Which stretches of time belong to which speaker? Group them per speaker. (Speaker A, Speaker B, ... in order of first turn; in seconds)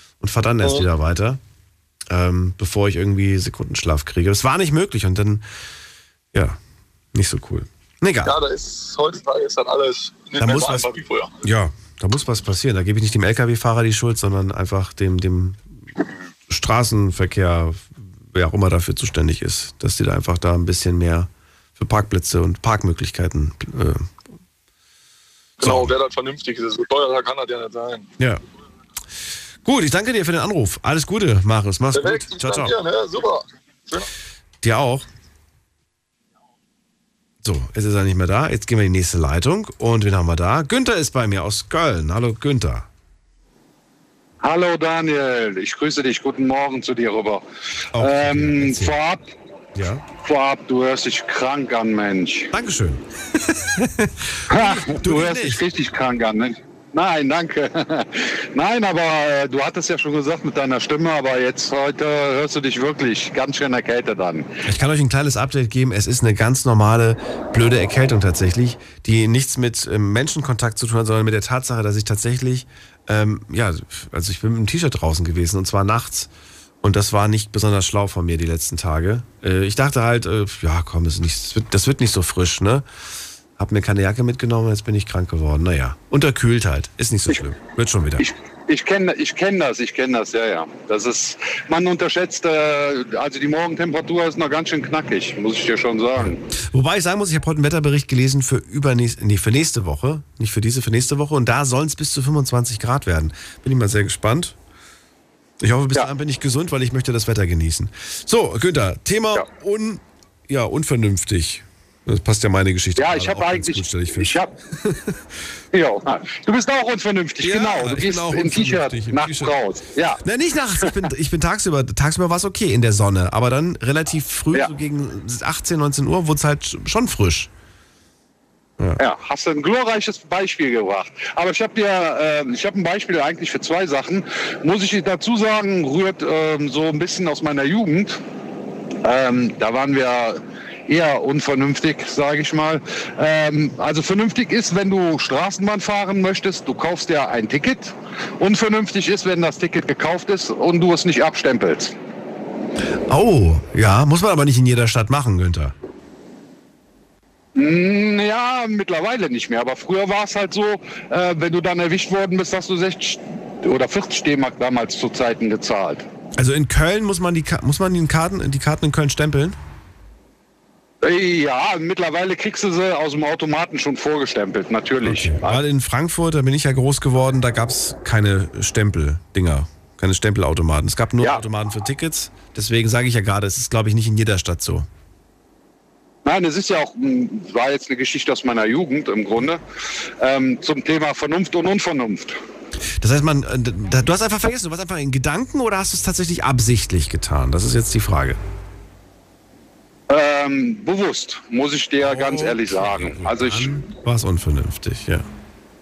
Speaker A: 0.2-1.4, 2.1-5.4, 6.3-6.6, 7.1-8.4, 10.4-10.9, 11.4-15.7, 16.5-24.2, 25.6-25.9, 29.6-32.7, 34.6-35.0, 37.4-42.9, 47.9-49.0, 49.7-50.0, 52.5-55.6, 64.6-76.3, 76.8-82.8, 83.6-88.2, 96.2-104.5, 105.6-115.2, 117.4-119.5, 120.2-127.5, 153.1-155.7, 166.3-169.6, 175.0-184.9, 193.0-198.4, 202.0-205.3
Speaker B: 8.2-11.3, 32.0-33.1
Speaker C: 44.4-47.4, 48.0-49.2, 50.1-52.5, 54.5-64.5, 88.2-96.4, 113.0-114.5, 115.7-120.2, 129.0-138.2, 139.0-151.9, 157.5-166.0, 171.0-175.6, 186.2-189.6, 190.2-192.4, 200.1-203.7